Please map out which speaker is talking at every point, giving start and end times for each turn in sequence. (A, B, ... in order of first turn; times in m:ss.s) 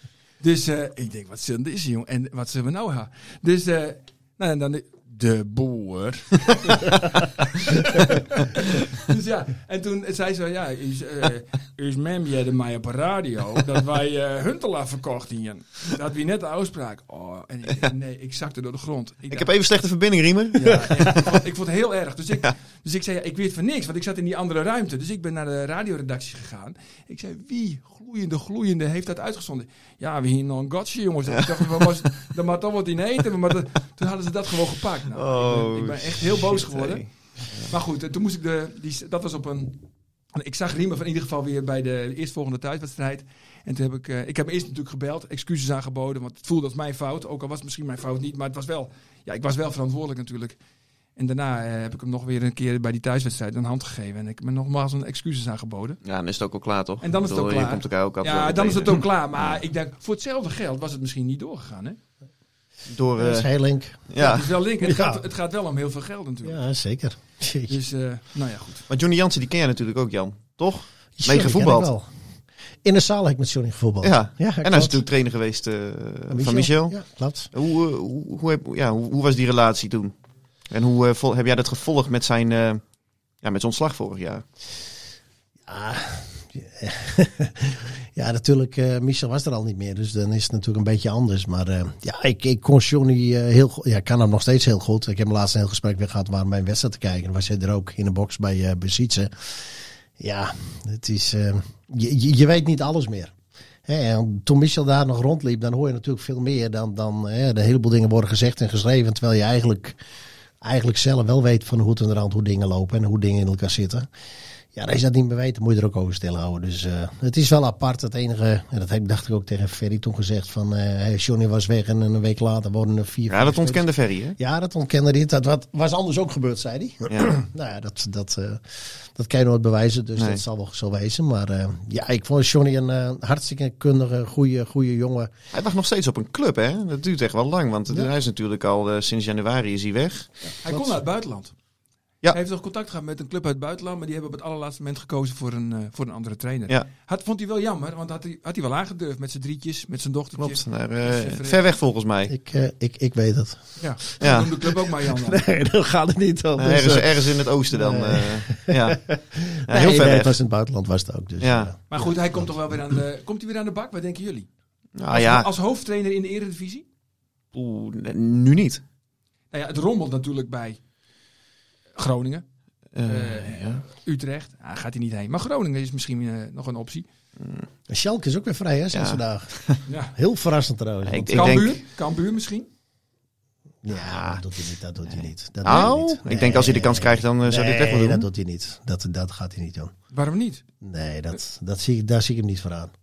0:00.4-0:19.5 A
0:19.3-0:21.2 B
0:20.5-0:37.0 A
0:35.1-0:37.1 B
0:37.6-0:39.8 A
0:40.3-0:50.6 A
0:51.2-0:56.0 A
0:56.0-0:59.6 B
0:57.0-1:02.0 A
1:02.9-1:03.5 B
1:03.2-1:04.0 C
1:04.1-1:04.5 B
1:04.2-1:06.6 A
1:04.8-1:05.2 C
1:06.4-1:07.8 C
1:07.7-1:08.9 A
1:08.9-1:11.9 B
1:11.2-1:12.1 C
1:12.8-1:15.0 C
1:14.0-1:17.0 B
1:16.3-1:17.5 C
1:17.5-1:20.1 B
1:20.7-1:22.8 B
1:23.4-1:24.4 B
1:25.7-1:39.6 C
1:40.2-1:43.3 C
1:43.8-1:50.0 C
1:50.6-1:54.1 C
1:54.7-2:03.8 C
2:03.3-2:04.4 B
2:04.4-2:15.3 C
2:10.2-2:10.4 B
2:15.5-2:20.3 B
2:20.6-2:21.5 A
2:20.6-2:21.0 C
2:22.3-2:31.6 A
2:30.4-2:32.3 B
2:32.3-2:33.8 C
2:33.8-2:35.4 A
2:34.2-2:34.5 B
2:35.0-2:42.5 C
2:36.6-2:39.0 B
2:39.6-2:40.4 B
2:41.4-2:41.7 B
2:41.9-2:44.5 A
2:45.0-2:45.5 B
2:45.1-2:46.8 A
2:47.5-2:48.8 B
2:49.5-2:50.8 A
2:52.0-2:52.4 A
2:52.9-2:53.8 B
2:53.0-2:57.0 A
2:57.4-2:57.6 B
2:57.9-2:59.5 C
2:58.9-2:59.8 B
2:59.8-3:00.1 A
3:00.1-3:01.7 C
3:01.0-3:01.8 B
3:01.3-3:02.7 A
3:03.8-3:09.9 C
3:03.9-3:04.4 B
3:05.6-3:08.3 B
3:10.1-3:10.6 A
3:10.8-3:12.9 C